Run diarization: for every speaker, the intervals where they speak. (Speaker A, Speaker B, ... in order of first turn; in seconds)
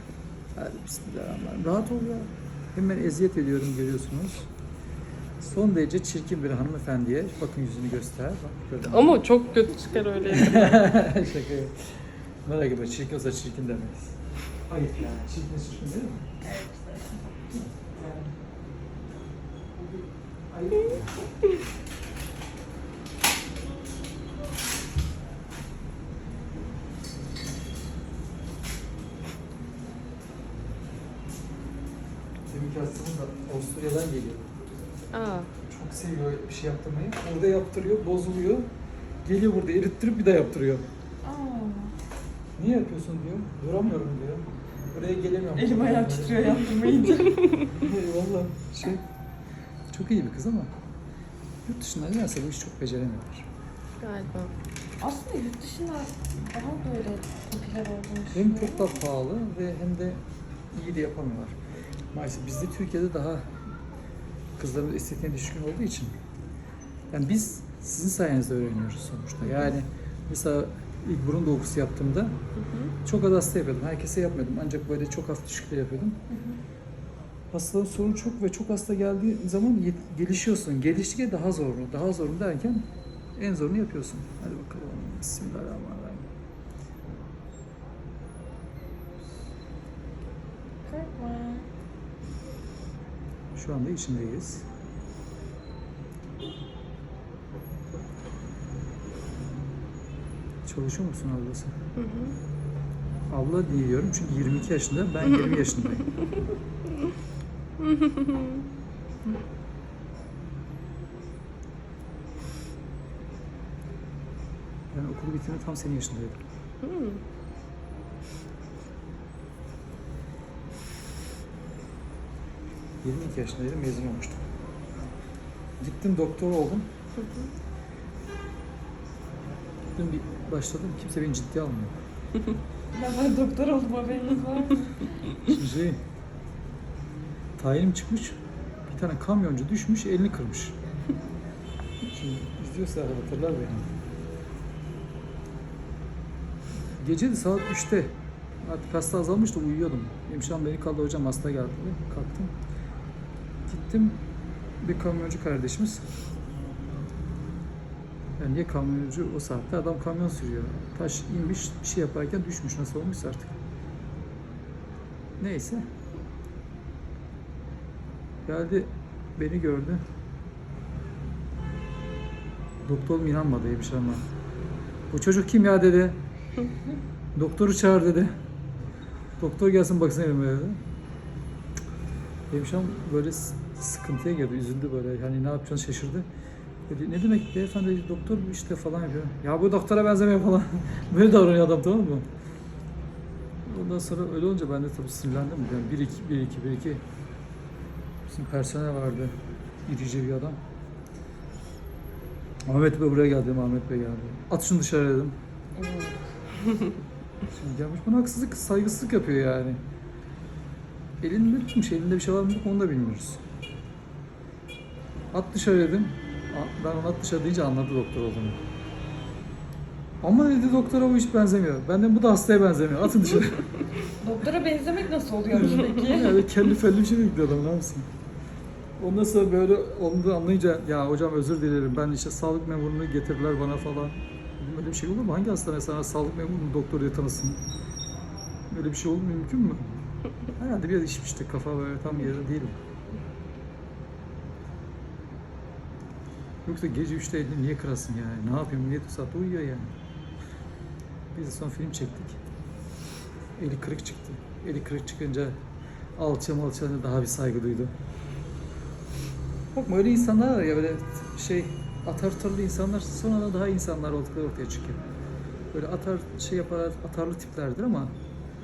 Speaker A: 0.6-4.5, 5.4-9.2, 10.3-16.3, 17.8-18.3, 19.8-21.3, 32.5-34.5, 35.7-38.7, 39.2-40.9, 42.6-46.5, 47.6-49.0, 49.9-50.8, 51.6-53.5, 58.3-61.6, 62.1-63.5, 64.6-66.1, 67.1-72.4, 72.9-76.3, 77.5-82.8, 83.4-86.3, 93.5-94.7, 100.7-101.8, 103.3-106.2, 114.9-116.4, 123.0-124.5, 125.8-126.9, 129.9-132.0, 135.4-136.0, 137.6-140.8, 142.1-143.9, 146.9-152.5, 153.7-154.2, 154.8-156.1, 158.4-163.6, 165.4-165.9, 168.4-170.0, 172.8-174.3, 175.1-176.2, 177.3-178.3, 179.4-180.8, 182.5-186.3, 186.9-192.3, 193.7-197.0, 198.3-200.6, 202.7-205.4, 207.5-209.8, 211.2-213.4, 215.3-218.6, 220.2-223.7, 225.5-228.1, 229.0-237.6, 238.7-242.8, 246.7-249.9, 251.3-252.4, 253.6-255.6, 256.2-257.9, 259.7-265.0, 265.7-268.2
Speaker B: 8.8-11.0, 35.1-35.5, 54.0-54.5, 102.0-102.3, 107.8-108.6, 116.8-117.2, 127.2-127.5
Speaker C: 16.4-17.3, 41.2-41.9, 45.6-47.6, 55.0-59.0, 69.5-69.7, 76.3-76.6, 90.9-91.7, 132.9-135.3, 205.8-206.3, 224.2-226.5